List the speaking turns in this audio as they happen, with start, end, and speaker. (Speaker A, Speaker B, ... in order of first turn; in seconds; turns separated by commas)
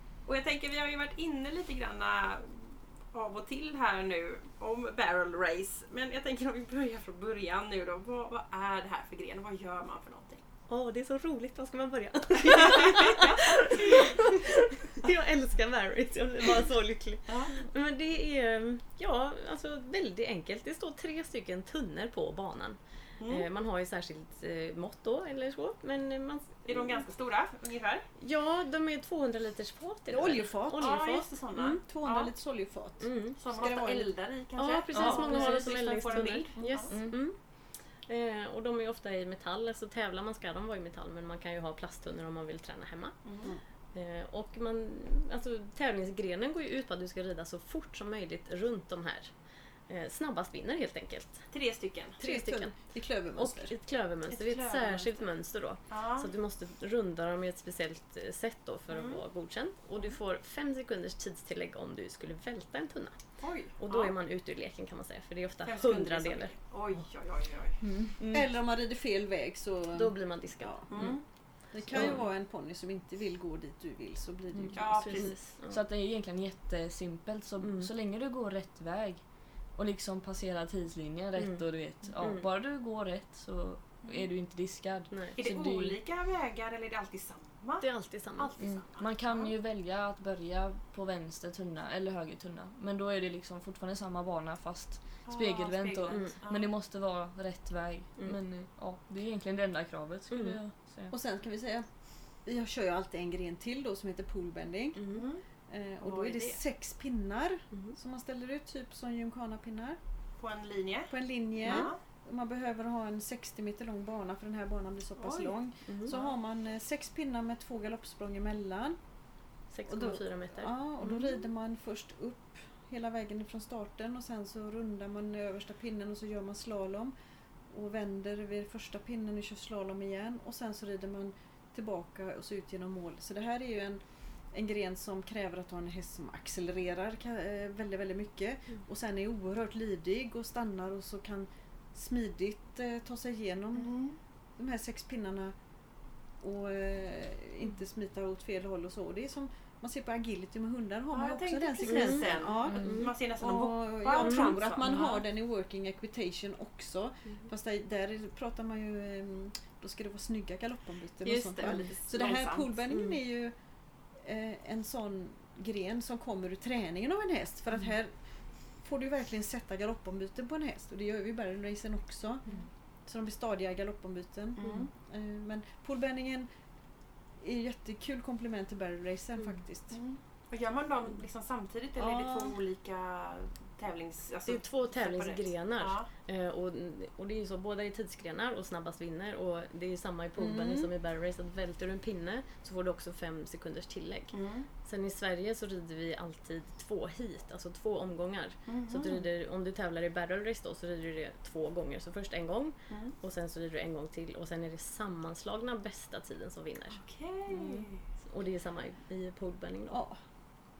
Speaker A: 0.2-10.4, Speaker B: 10.7-27.1, Speaker A: 12.4-14.1, Speaker A: 17.3-17.6, Speaker A: 23.2-23.5, Speaker A: 26.6-28.1, Speaker B: 28.2-31.8, Speaker C: 30.1-31.0, Speaker A: 30.8-32.3, Speaker C: 31.8-34.1, Speaker B: 33.0-33.4, Speaker A: 33.4-37.0, Speaker B: 34.5-51.5, Speaker D: 34.9-35.3, Speaker D: 36.9-37.2, Speaker A: 43.2-43.5, Speaker A: 51.5-52.2, Speaker B: 52.2-66.5, Speaker C: 52.2-53.7, Speaker A: 54.3-55.3, Speaker A: 55.9-56.3, Speaker A: 58.9-59.2, Speaker A: 63.4-64.1, Speaker A: 65.6-67.8, Speaker C: 67.9-75.3, Speaker D: 68.0-68.5, Speaker B: 69.9-72.2, Speaker A: 70.9-71.2, Speaker D: 74.5-74.8, Speaker A: 74.7-75.5, Speaker B: 74.9-75.8, Speaker D: 75.7-86.0, Speaker B: 77.6-77.9, Speaker B: 81.3-82.5, Speaker A: 84.0-84.3, Speaker B: 85.1-85.3, Speaker A: 85.3-89.5, Speaker B: 87.8-88.5, Speaker D: 88.6-101.1, Speaker A: 95.2-96.7, Speaker B: 96.1-96.3, Speaker B: 100.3-100.6, Speaker C: 101.1-105.0, Speaker B: 104.9-105.3, Speaker A: 105.1-105.4, Speaker C: 105.7-110.0, Speaker A: 106.0-106.6, Speaker B: 107.7-108.0, Speaker A: 110.4-112.0, Speaker C: 111.1-119.0, Speaker A: 115.2-116.3, Speaker B: 115.8-116.1, Speaker B: 119.7-120.7, Speaker C: 119.9-127.1, Speaker A: 121.0-121.3, Speaker C: 127.7-144.0, Speaker A: 143.8-144.2, Speaker C: 144.6-145.6, Speaker C: 146.3-172.5, Speaker A: 151.1-155.2, Speaker B: 151.8-153.2, Speaker D: 152.7-153.0, Speaker B: 154.2-154.9, Speaker A: 161.2-162.7, Speaker B: 162.9-163.2, Speaker C: 173.0-176.5, Speaker A: 174.6-174.9, Speaker B: 174.6-174.9, Speaker C: 177.3-180.0, Speaker A: 179.9-186.1, Speaker C: 182.0-182.6, Speaker B: 184.4-207.0, Speaker C: 190.4-190.9, Speaker A: 194.3-194.7, Speaker A: 198.7-199.2, Speaker A: 202.9-203.1, Speaker A: 207.0-208.0, Speaker B: 207.6-210.0, Speaker C: 209.9-210.2